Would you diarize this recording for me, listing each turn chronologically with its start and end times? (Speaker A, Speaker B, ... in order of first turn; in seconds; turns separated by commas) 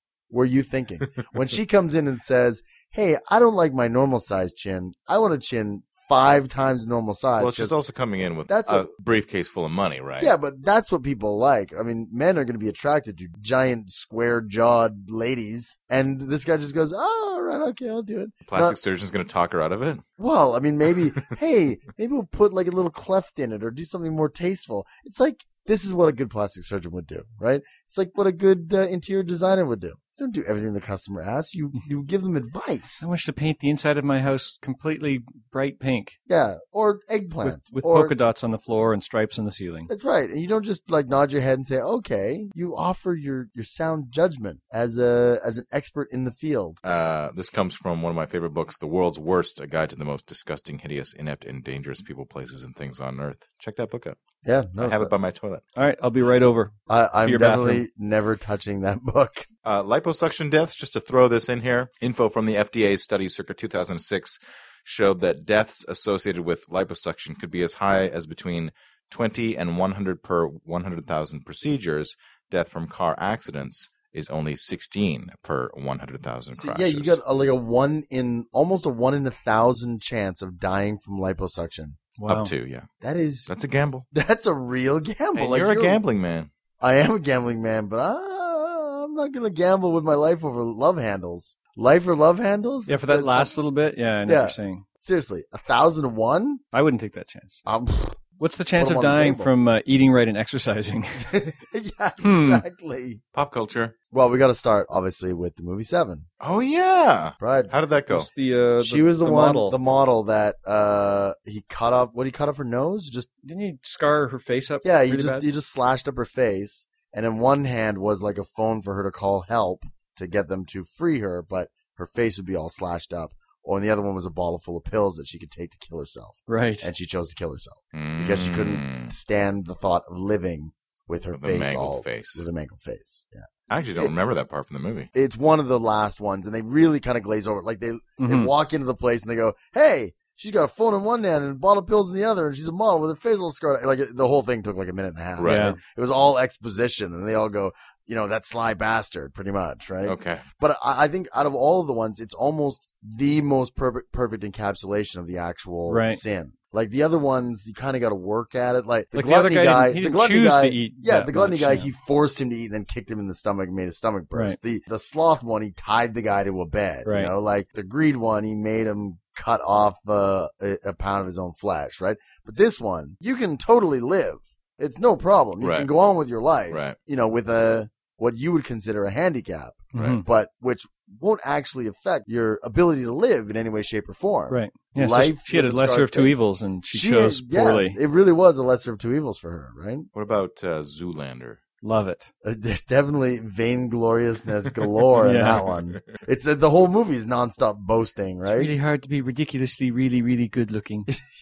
Speaker A: 0.3-7.8, Speaker B: 7.4-10.3, Speaker A: 8.5-8.9, Speaker A: 10.2-18.8, Speaker B: 18.5-20.0, Speaker A: 20.2-33.1, Speaker C: 33.0-36.2, Speaker A: 36.3-38.1, Speaker C: 37.4-39.9, Speaker A: 39.9-46.8, Speaker B: 46.8-54.2, Speaker A: 54.4-55.1, Speaker B: 54.8-55.6, Speaker C: 55.8-57.8, Speaker A: 56.9-59.5, Speaker B: 59.6-77.2, Speaker A: 76.6-82.0, Speaker C: 82.2-82.5, Speaker B: 82.3-82.9, Speaker A: 83.0-83.5, Speaker B: 83.5-84.1, Speaker A: 84.1-86.0, Speaker B: 85.3-86.5, Speaker A: 86.8-93.5, Speaker C: 92.9-94.8, Speaker A: 94.3-96.6, Speaker C: 96.7-97.6, Speaker A: 97.7-98.2, Speaker C: 98.4-101.4, Speaker A: 98.8-99.5, Speaker A: 101.2-103.2, Speaker C: 102.2-102.6, Speaker B: 103.3-104.0, Speaker A: 104.1-106.3, Speaker B: 106.4-108.3, Speaker A: 107.4-107.7, Speaker C: 108.1-109.8, Speaker A: 108.8-113.3, Speaker C: 113.4-115.5, Speaker A: 114.8-134.1, Speaker C: 126.5-126.9, Speaker B: 127.9-129.1, Speaker B: 131.3-132.4, Speaker B: 133.7-135.1, Speaker A: 135.2-190.1, Speaker C: 138.2-138.5, Speaker B: 145.4-145.7, Speaker C: 145.4-145.8, Speaker B: 150.0-150.4, Speaker C: 155.9-156.2, Speaker C: 159.1-161.9, Speaker C: 167.1-167.3, Speaker B: 175.6-175.9, Speaker B: 176.7-177.0, Speaker B: 179.9-180.2, Speaker C: 179.9-180.2, Speaker C: 184.5-188.0, Speaker B: 190.1-191.6, Speaker C: 191.8-192.3, Speaker A: 192.4-198.7, Speaker C: 195.2-195.7, Speaker B: 195.4-196.0, Speaker C: 198.4-201.1